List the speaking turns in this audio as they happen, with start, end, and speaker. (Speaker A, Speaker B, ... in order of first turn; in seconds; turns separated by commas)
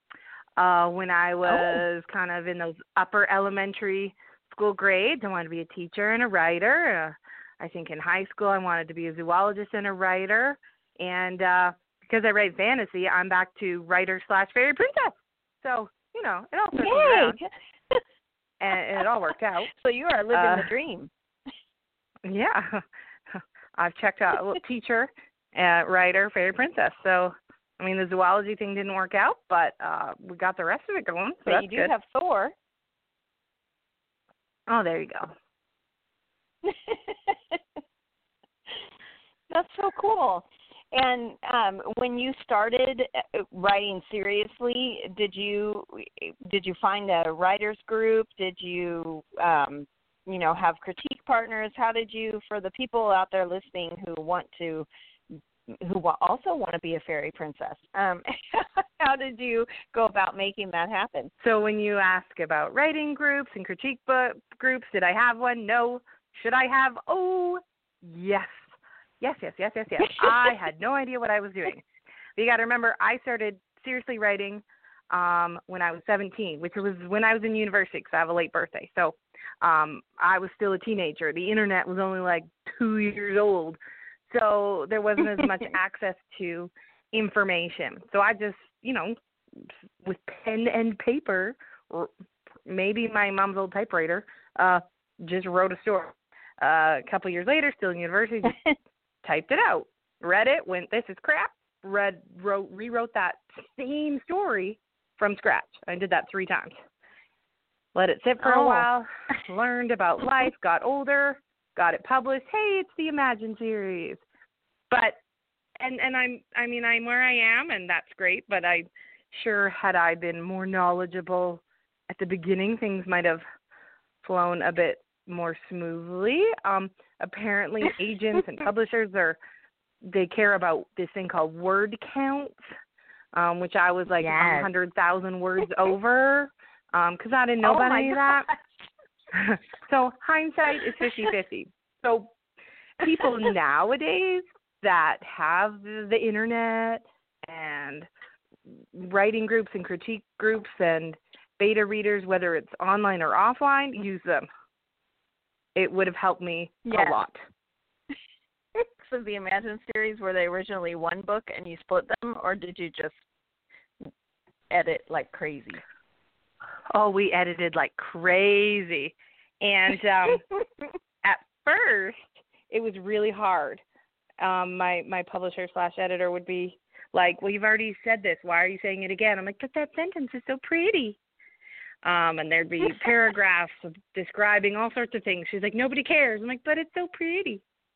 Speaker A: 0.6-17.4, Speaker B: 16.7-18.0, Speaker A: 18.6-19.7, Speaker B: 19.7-21.1, Speaker A: 20.3-20.7, Speaker A: 22.2-31.9, Speaker B: 31.4-32.5, Speaker A: 34.7-35.3, Speaker B: 36.6-37.6, Speaker B: 39.5-54.9, Speaker B: 55.7-61.3, Speaker A: 61.4-68.6, Speaker A: 69.2-71.8, Speaker A: 72.3-83.8, Speaker A: 84.3-92.1, Speaker A: 92.6-98.6, Speaker A: 99.2-106.7, Speaker A: 107.9-114.2, Speaker B: 108.4-108.8, Speaker A: 114.9-115.2, Speaker A: 115.8-123.4, Speaker A: 124.2-129.4, Speaker A: 130.0-132.6, Speaker A: 133.3-138.5, Speaker B: 134.2-134.7, Speaker B: 137.6-138.7, Speaker A: 139.3-142.3, Speaker A: 143.0-148.1, Speaker A: 148.7-154.5, Speaker A: 155.7-157.4, Speaker B: 156.8-157.2, Speaker B: 158.7-163.2, Speaker B: 164.7-165.8, Speaker A: 166.9-170.4, Speaker A: 171.2-173.8, Speaker A: 174.4-181.2, Speaker A: 182.0-187.6